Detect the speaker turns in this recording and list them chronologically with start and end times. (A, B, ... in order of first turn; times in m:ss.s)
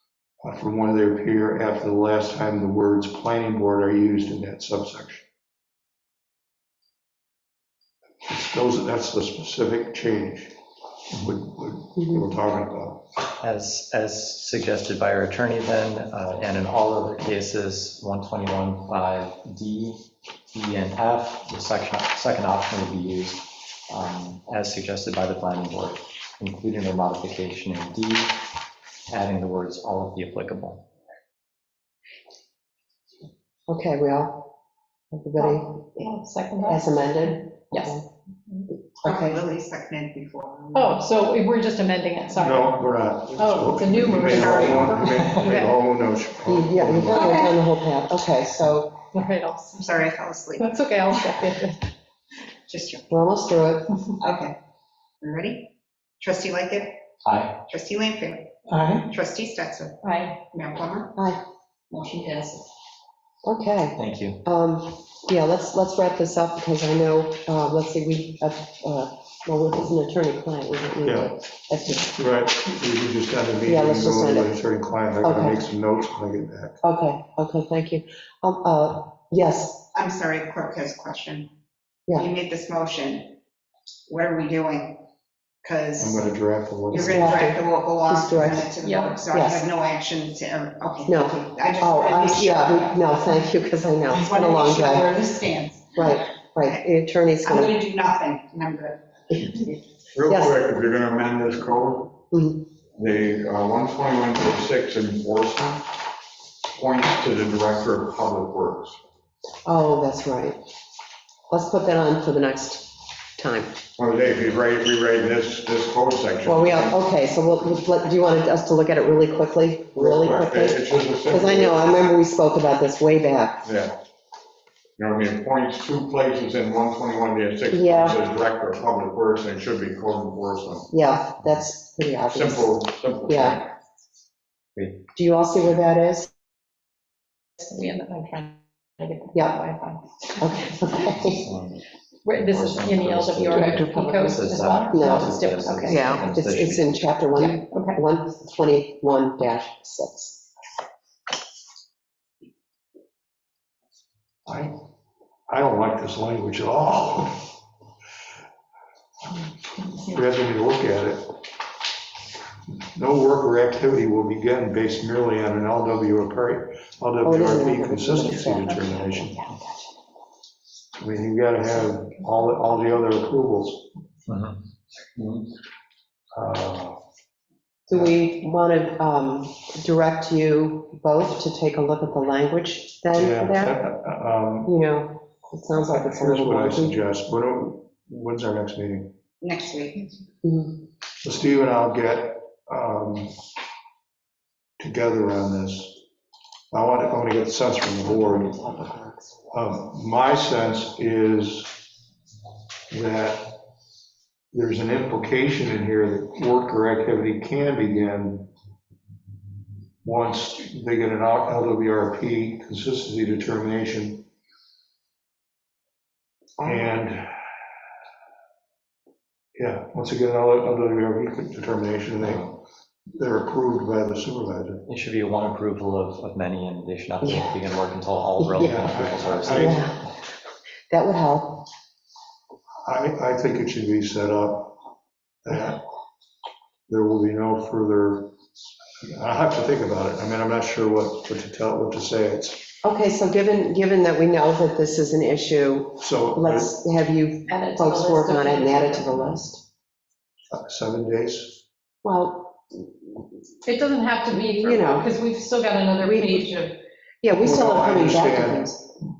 0:00.4-0:05.2 A
0:08.3-0:10.6 A
0:11.1-0:13.0 A
0:12.0-0:12.2 B
0:13.4-0:28.4 C
0:29.1-0:30.8 C
0:33.7-0:34.5 B
0:35.1-0:36.1 B
0:35.4-0:38.0 D
0:36.6-0:38.1 B
0:39.0-0:39.4 B
0:39.0-0:41.1 E
0:40.7-0:42.8 D
0:42.4-0:47.4 A
0:43.3-0:45.3 D
0:44.2-0:45.8 E
0:46.5-0:49.0 B
0:49.1-0:51.9 D
0:49.8-0:51.4 E
0:52.7-0:53.1 E
0:53.1-0:53.9 B
0:54.2-0:54.6 E
0:55.2-0:57.0 E
0:57.2-0:57.6 C
0:57.7-1:01.1 E
1:00.0-1:00.4 D
1:01.2-1:01.4 B
1:01.9-1:02.6 D
1:03.4-1:12.1 B
1:04.0-1:04.4 C
1:11.0-1:11.3 A
1:12.0-1:16.8 A
1:13.6-1:14.6 B
1:15.2-1:15.6 B
1:16.8-1:19.9 B
1:19.9-1:21.5 E
1:22.2-1:23.4 E
1:24.1-1:25.0 E
1:25.6-1:26.3 E
1:26.0-1:27.5 A
1:26.9-1:28.7 B
1:26.9-1:33.1 E
1:28.8-1:29.3 D
1:29.3-1:29.7 B
1:31.1-1:35.2 B
1:34.1-1:36.1 E
1:36.0-1:37.8 B
1:37.4-1:39.8 E
1:40.1-1:42.2 F
1:40.3-1:40.6 B
1:42.3-1:42.7 B
1:43.0-1:45.8 F
1:46.7-1:49.0 F
1:49.6-1:50.6 B
1:51.5-1:53.8 B
1:54.0-1:57.0 F
1:56.4-2:03.6 B
2:00.0-2:01.9 F
2:03.6-2:04.0 F
2:05.0-2:10.9 F
2:07.7-2:08.2 B
2:10.9-2:13.6 B
2:12.3-2:13.6 F
2:14.8-2:15.0 C
2:15.2-2:16.3 B
2:17.6-2:20.0 D
2:19.3-2:19.6 B
2:20.4-2:21.4 B
2:21.3-2:27.2 C
2:22.2-2:26.3 D
2:23.5-2:24.4 B
2:24.9-2:30.5 B
2:27.4-2:28.0 D
2:34.5-2:34.7 A
2:35.5-2:37.4 A
2:39.9-2:41.3 A
2:42.9-2:49.5 A
2:47.2-2:49.2 B
2:51.0-2:53.9 A
2:54.3-2:54.6 C
2:55.2-2:55.5 C
2:56.3-2:57.0 A
2:57.9-3:03.8 B
3:03.2-3:04.7 A
3:04.7-3:07.0 B
3:05.8-3:09.1 A
3:09.4-3:10.2 E
3:10.4-3:10.8 B
3:11.2-3:13.3 A
3:14.8-3:16.0 A
3:16.7-3:18.6 A
3:18.0-3:19.4 B
3:19.5-3:21.8 A
3:22.9-3:23.6 A
3:24.5-3:28.5 A
3:30.0-3:34.2 A
3:36.6-3:37.0 B
3:36.6-3:37.4 A
3:39.6-3:42.6 A
3:43.2-3:44.8 A
3:44.9-3:49.8 C
3:47.2-3:47.5 B
3:48.6-3:49.8 A
3:49.5-3:50.1 B
3:50.9-3:51.7 B
3:52.8-3:54.8 A
3:55.4-3:55.8 A
3:56.9-3:58.3 A
3:59.0-4:02.7 A
4:02.8-4:09.6 B
4:06.0-4:06.7 A
4:07.5-4:09.2 D
4:10.5-4:11.6 A
4:12.0-4:12.9 B
4:13.6-4:16.8 D
4:14.3-4:15.2 B
4:16.0-4:16.6 B
4:17.2-4:18.8 B
4:17.4-4:18.7 A